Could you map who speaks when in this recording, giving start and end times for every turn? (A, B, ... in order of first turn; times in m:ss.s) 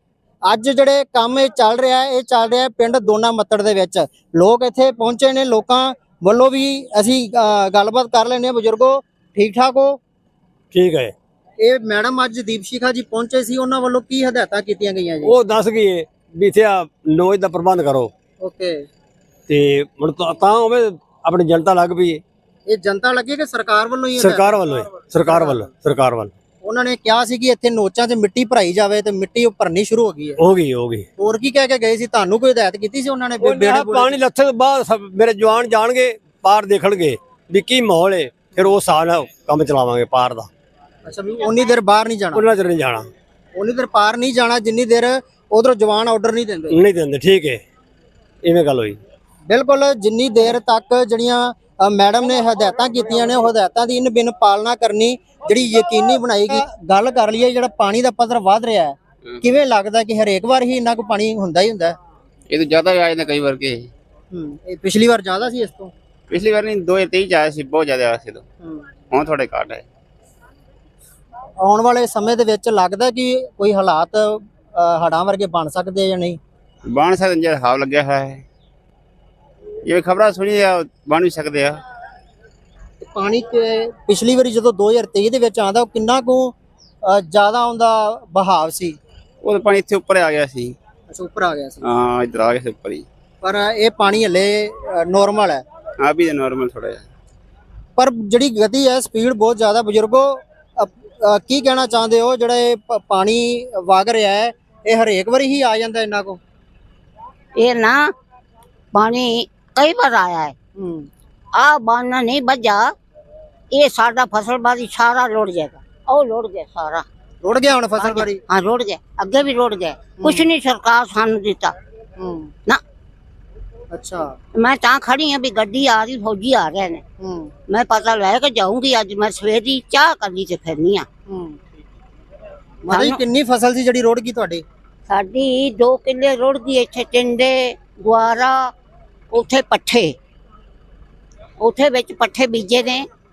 0:00.5-0:10.0 A
0:10.7-0:11.1 B
0:11.6-0:15.4 A
0:15.2-0:18.1 B
0:18.4-0:18.8 A
0:19.5-0:22.2 B
0:22.7-0:24.6 A
0:24.2-0:26.3 B
0:25.2-0:25.6 A
0:26.6-0:30.4 A
0:30.4-0:31.0 B
0:31.2-0:34.2 A
0:33.4-0:40.5 B
0:41.1-0:42.4 A
0:42.3-0:43.1 B
0:43.6-0:46.8 A
0:46.7-0:47.6 B
0:48.4-0:49.0 B
0:49.5-1:02.0 A
1:02.5-1:03.9 C
1:04.3-1:05.9 A
1:06.3-1:08.4 C
1:09.1-1:09.8 C
1:11.6-1:16.4 A
1:16.9-1:18.4 C
1:19.8-1:21.8 C
1:23.0-1:29.0 A
1:29.4-1:30.7 C
1:31.1-1:31.8 A
1:31.8-1:33.0 C
1:33.4-1:35.6 A
1:36.0-1:37.0 C
1:38.0-1:46.4 A
1:47.6-1:48.1 D
1:48.9-1:50.5 D
1:50.8-1:51.1 A
1:51.6-1:52.9 D
1:53.7-1:57.0 D
1:57.4-1:58.4 A
1:58.0-2:01.7 D
2:00.2-2:00.5 A
2:02.2-2:02.5 A
2:03.9-2:04.3 A
2:04.5-2:07.0 D
2:07.2-2:07.5 A
2:07.7-2:11.1 D
2:11.3-2:11.6 A
2:12.8-2:14.6 A
2:12.9-2:13.2 D
2:15.1-2:18.7 D
2:19.3-2:20.1 D
2:21.6-2:23.0 D